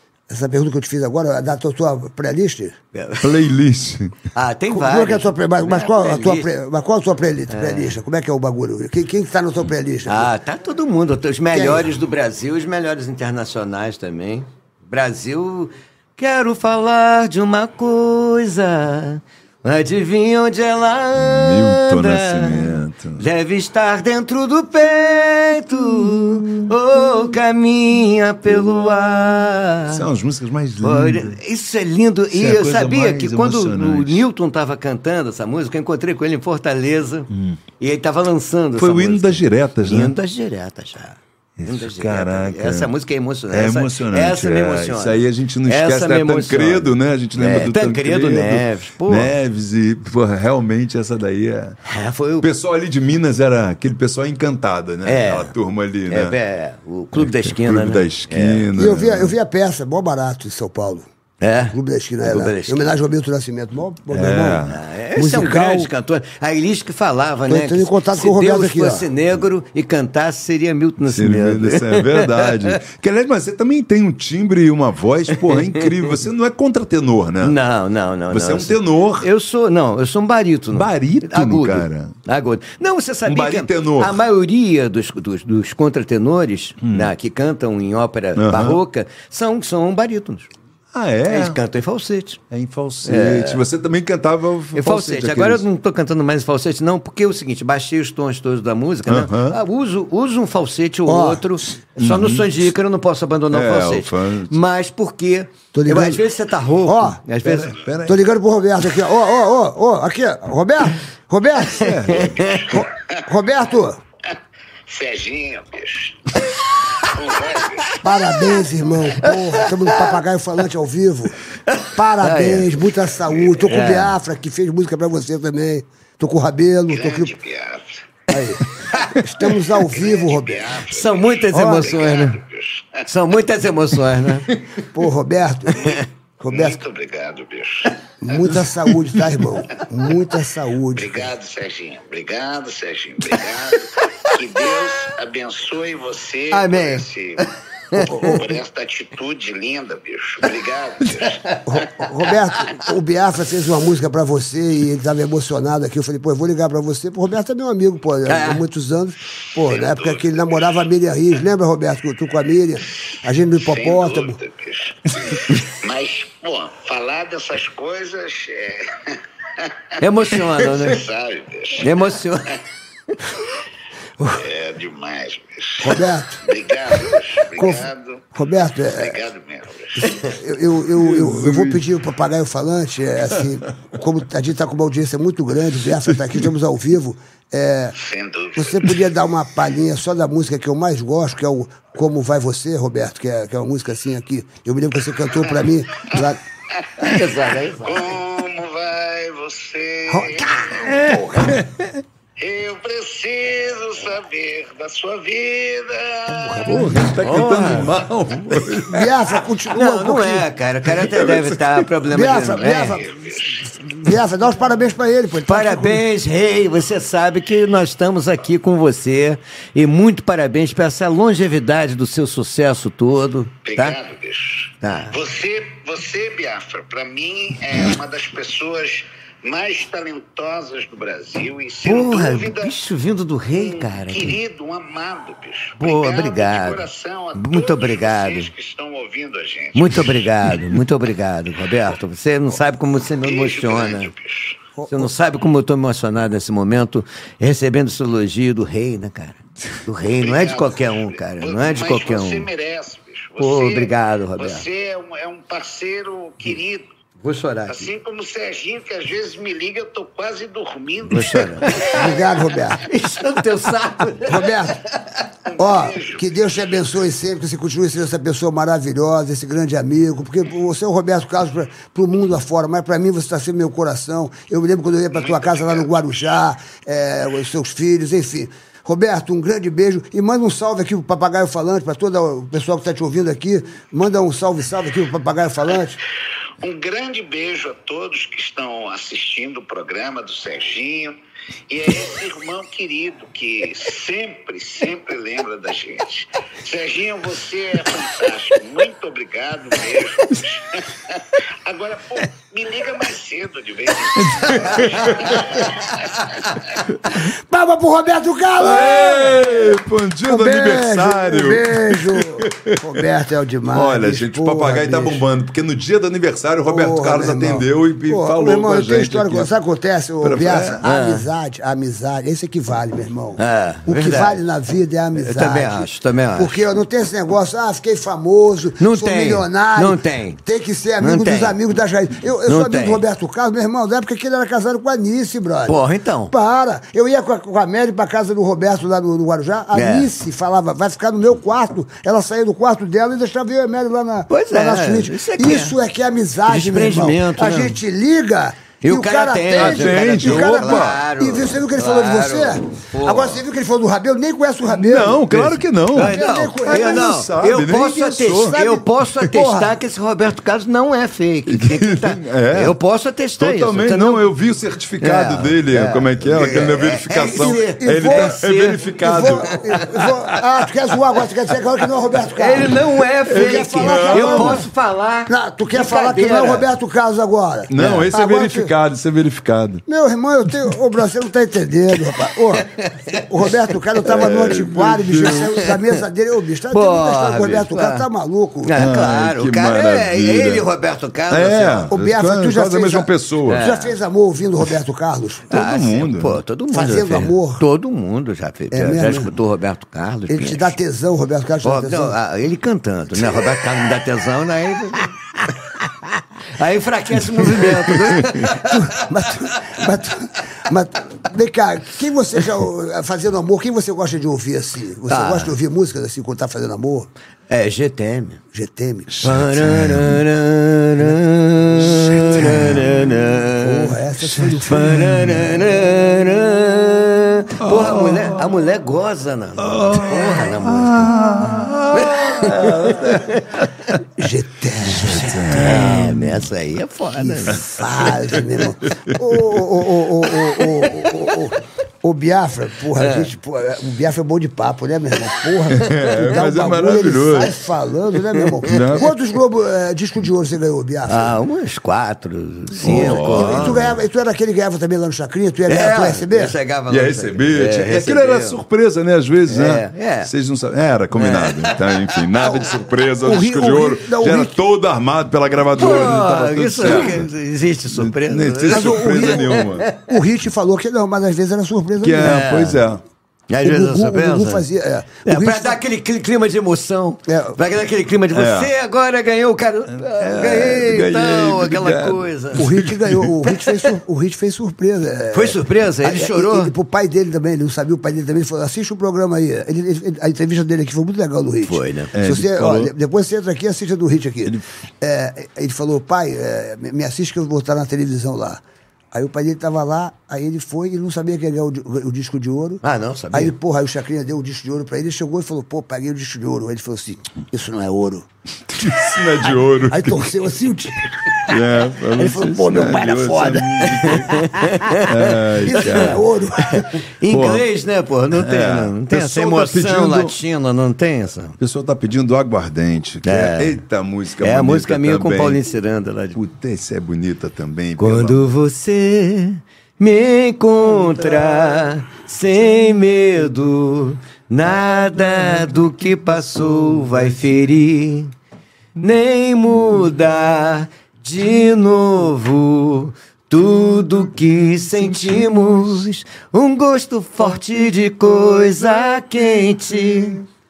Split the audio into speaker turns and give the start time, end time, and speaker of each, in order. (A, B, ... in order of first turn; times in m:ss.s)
0:00.3-0:02.8 A
0:02.9-0:03.4 B
0:03.2-0:04.1 C
0:04.3-0:06.5 B
0:04.7-0:10.3 A
0:07.5-0:07.9 B
0:10.0-0:30.0 B
0:11.5-0:11.9 A
0:21.1-0:23.2 C
0:29.9-0:31.4 C
0:30.8-0:49.3 B
0:32.3-0:34.2 C
0:37.3-0:37.6 C
0:38.8-0:40.1 C
0:41.6-0:42.9 C
0:43.5-0:51.8 C
0:51.8-0:52.5 B
0:52.4-0:56.4 C
0:55.0-0:55.5 B
0:56.1-0:58.6 B
0:57.2-0:59.3 C
0:58.8-1:01.1 A
1:01.4-1:02.8 B
1:01.7-1:04.6 A
1:04.1-1:04.8 C
1:04.7-1:12.7 B
1:05.1-1:05.9 A
1:07.5-1:09.1 A
1:11.0-1:17.6 C
1:15.3-1:15.9 B
1:17.4-1:30.5 B
1:18.3-1:19.3 C
1:20.7-1:22.2 C
1:23.2-1:24.2 C
1:26.8-1:27.1 C
1:28.4-1:28.8 C
1:30.9-1:31.6 C
1:31.3-1:32.4 B
1:32.5-1:35.6 C
1:33.0-1:33.6 B
1:34.7-1:47.7 B
1:39.1-1:39.6 C
1:41.1-1:41.8 A
1:42.0-1:42.7 C
1:43.5-1:44.5 C
1:45.7-1:46.2 A
1:46.8-1:47.2 A
1:47.4-1:48.2 C
1:48.1-1:54.0 A
1:51.8-1:52.4 C
1:51.8-1:52.7 B
1:52.4-1:53.1 D
1:54.9-1:56.4 D
1:57.0-1:58.0 D
1:58.0-2:01.4 A
1:59.2-2:00.1 B
2:01.7-2:02.8 B
2:01.9-2:07.3 A
2:03.6-2:04.1 B
2:06.9-2:08.0 D
2:08.3-2:10.7 A
2:09.4-2:13.1 D
2:10.9-2:12.4 B
2:11.5-2:11.9 A
2:13.1-2:14.6 B
2:14.9-2:15.8 A
2:15.7-2:18.0 D
2:16.4-2:16.8 A
2:18.2-2:21.3 A
2:20.9-2:27.4 D
2:26.5-2:28.4 B
2:28.0-2:28.4 A
2:28.0-2:32.0 D
2:31.2-2:31.6 B
2:31.6-2:44.4 A
2:38.2-2:38.6 B
2:39.6-2:40.3 D
2:43.6-2:49.7 D
2:50.0-2:51.0 B
2:50.3-2:51.9 D
2:51.8-2:52.5 B
2:54.3-2:58.3 D
2:55.8-2:56.4 A
2:57.0-2:59.2 A
2:58.9-3:00.2 D
3:00.1-3:07.9 A
3:01.0-3:01.8 C
3:08.0-3:09.0 D
3:08.6-3:16.4 A
3:16.1-3:17.3 D
3:17.0-3:18.0 B
3:17.8-3:21.5 D
3:20.1-3:21.5 A
3:22.4-3:26.9 D
3:26.5-3:29.1 C
3:26.9-3:27.9 B
3:28.9-3:30.4 A
3:29.7-3:33.0 B
3:30.8-3:31.9 C
3:32.1-3:36.0 A
3:32.8-3:33.6 D
3:35.4-3:44.0 B
3:43.6-3:52.8 D
3:44.8-3:45.2 B
3:51.8-3:54.4 B
3:53.5-4:00.2 D
3:55.8-3:58.5 B
3:59.7-4:04.1 B
4:03.2-4:04.6 D
4:04.8-4:05.1 A
4:04.9-4:12.5 B
4:10.1-4:16.9 D
4:13.4-4:14.7 B
4:17.2-4:17.9 B
4:17.7-4:22.4 D
4:21.0-4:21.9 B
4:21.9-4:22.8 A
4:22.8-4:24.5 B
4:24.3-4:24.8 A
4:25.5-4:26.3 D
4:25.6-4:46.0 A
4:35.1-4:36.1 D
4:46.6-4:51.2 D
4:51.7-5:06.5 D
5:04.3-5:05.3 B
5:07.2-5:09.6 A
5:08.6-5:13.0 C
5:10.3-5:15.2 A
5:13.7-5:19.5 C
5:16.6-5:35.8 A
5:20.2-5:20.8 C
5:20.8-5:21.3 B
5:23.4-5:24.4 B
5:25.1-5:26.6 B
5:28.8-5:30.4 B
5:31.0-5:31.6 B
5:32.4-5:33.0 B
5:35.6-5:36.3 B
5:36.3-5:57.1 A
5:39.7-5:40.1 B
5:44.3-5:45.7 B
5:46.5-5:47.8 B
5:48.8-5:53.4 B
5:49.5-5:51.0 C
5:54.7-5:58.6 C
5:55.9-6:04.3 B
5:58.3-5:59.8 A
6:01.5-6:02.8 C
6:03.4-6:10.1 C
6:05.0-6:09.3 B
6:07.2-6:08.4 A
6:08.9-6:14.7 A
6:12.3-6:16.6 B
6:13.2-6:14.6 C
6:15.3-6:18.7 A
6:17.7-6:19.8 C
6:17.8-6:18.1 B
6:19.9-6:28.8 A
6:22.9-6:23.2 B
6:24.1-6:25.5 C
6:25.2-6:25.7 B
6:26.7-6:28.0 B
6:28.6-6:31.9 B
6:28.7-6:30.7 C
6:31.3-6:33.6 C
6:31.9-6:35.5 A
6:33.5-6:33.9 B
6:35.5-6:36.4 C
6:35.5-6:40.7 B
6:36.7-6:37.6 A
6:38.7-6:39.4 A
6:40.3-6:42.2 A
6:41.6-6:45.1 B
6:46.6-6:48.9 B
6:48.5-6:57.1 A
6:55.1-6:55.5 B
6:57.5-6:58.4 B
6:58.5-6:59.2 A
6:59.1-7:00.2 C
6:59.2-7:03.9 B
7:01.8-7:02.7 A
7:02.5-7:02.7 C
7:03.6-7:05.4 A
7:04.3-7:05.3 C
7:04.6-7:11.1 B
7:07.6-7:08.5 C
7:09.6-7:13.7 C
7:11.9-7:13.6 B
7:14.2-7:15.5 A
7:14.8-7:16.4 C
7:15.0-7:17.8 B
7:17.2-7:31.3 A
7:19.0-7:19.6 C
7:23.0-7:23.3 B
7:25.7-7:27.6 C
7:28.4-7:29.0 B
7:28.6-7:29.1 C
7:31.1-7:33.8 B
7:32.8-7:34.0 C
7:32.8-7:36.5 A
7:35.7-7:38.6 B
7:36.9-7:47.3 C
7:39.5-7:40.3 B
7:41.1-7:42.5 B
7:43.2-7:44.6 A
7:45.8-7:50.1 B
7:47.9-7:49.9 C
7:48.7-7:52.5 A
7:52.0-7:53.0 C
7:52.2-7:52.8 B
7:53.5-7:54.6 B
7:53.6-7:55.7 A
7:55.2-8:02.7 B
7:57.3-7:57.6 A
7:58.3-7:58.7 C
7:59.9-8:03.3 C
8:02.6-8:18.6 A
8:05.3-8:06.7 B
8:11.6-8:12.1 B
8:12.1-8:12.9 C
8:19.1-8:22.8 A
8:22.8-8:23.5 B
8:23.3-8:28.2 A
8:28.7-8:30.3 C
8:29.9-8:31.6 A
8:31.5-8:36.2 C
8:32.1-8:33.8 A
8:34.0-8:36.1 B
8:35.6-8:36.8 A
8:36.7-8:41.6 B
8:37.3-8:37.6 C
8:38.3-8:40.3 C
8:41.6-8:45.6 C
8:43.2-8:43.8 B
8:44.4-8:46.4 B
8:46.3-8:48.4 C
8:48.0-8:58.3 B
8:59.0-9:10.4 B